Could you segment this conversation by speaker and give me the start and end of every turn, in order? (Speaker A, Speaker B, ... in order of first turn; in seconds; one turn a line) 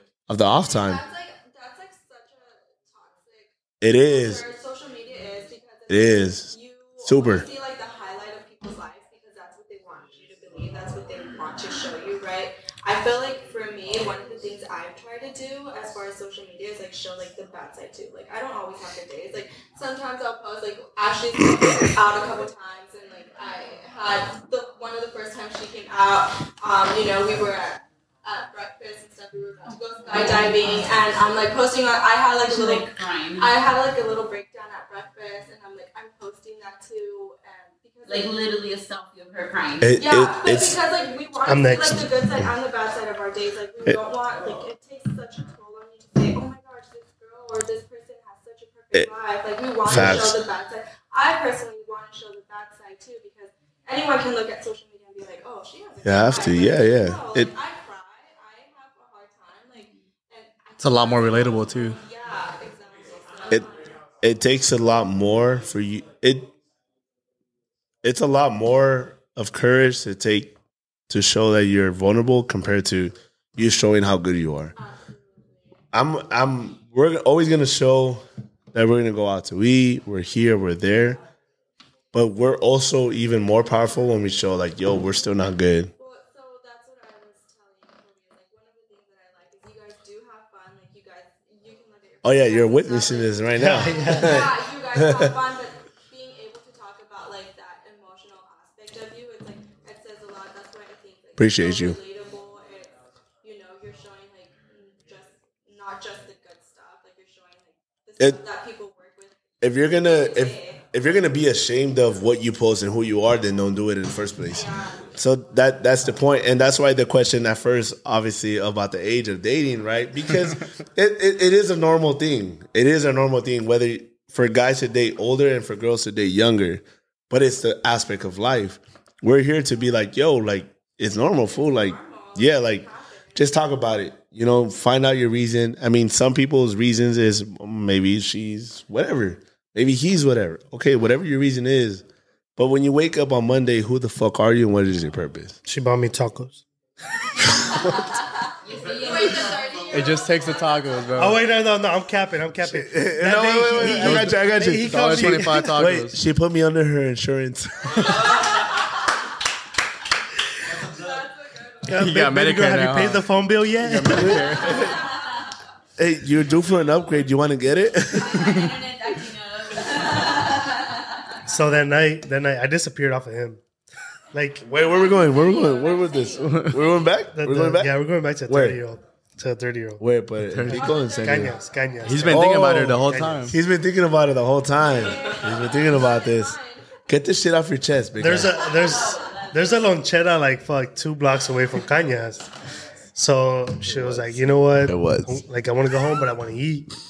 Speaker A: 0.3-1.0
Speaker B: 0.6-38.4
Speaker A: 3.8-4.4
Speaker A: 5.9-7.5
Speaker C: 29.6-30.8
Speaker C: 32.4-33.5
Speaker C: 38.1-39.9
Speaker A: 39.8-40.8
Speaker B: 40.0-63.9
Speaker D: 41.5-42.1
Speaker A: 49.9-50.4
Speaker A: 56.0-57.5
Speaker E: 60.8-62.0
Speaker A: 64.2-66.5
Speaker A: 68.0-70.5
Speaker A: 71.1-74.7
Speaker B: 74.8-75.6
Speaker A: 75.9-81.2
Speaker A: 82.1-85.9
Speaker B: 86.0-109.3
Speaker A: 92.2-95.3
Speaker D: 93.5-94.4
Speaker A: 101.4-102.0
Speaker A: 109.6-142.0
Speaker B: 109.8-110.8
Speaker B: 114.5-115.1
Speaker B: 131.1-133.4
Speaker A: 142.6-145.6
Speaker D: 145.7-146.6
Speaker C: 148.6-150.0
Speaker B: 148.7-151.0
Speaker E: 149.9-151.4
Speaker D: 151.2-155.8
Speaker A: 152.6-158.5
Speaker E: 153.8-156.2
Speaker B: 157.9-158.8
Speaker B: 160.7-162.0
Speaker D: 161.8-164.7
Speaker E: 161.9-165.0
Speaker A: 164.1-164.9
Speaker B: 164.6-165.2
Speaker C: 164.8-165.5
Speaker A: 166.0-168.7
Speaker C: 168.1-171.4
Speaker D: 171.4-173.6
Speaker D: 174.3-174.6
Speaker A: 174.6-177.9
Speaker C: 174.8-176.7
Speaker E: 176.4-176.7
Speaker D: 177.3-180.0
Speaker A: 178.5-178.8
Speaker A: 180.0-181.6
Speaker E: 180.4-181.2
Speaker D: 180.7-183.6
Speaker B: 180.9-181.4
Speaker E: 182.0-183.5
Speaker A: 182.2-188.6
Speaker B: 184.8-187.0
Speaker D: 188.2-192.5
Speaker C: 188.5-189.9
Speaker D: 193.1-196.9
Speaker A: 193.9-195.4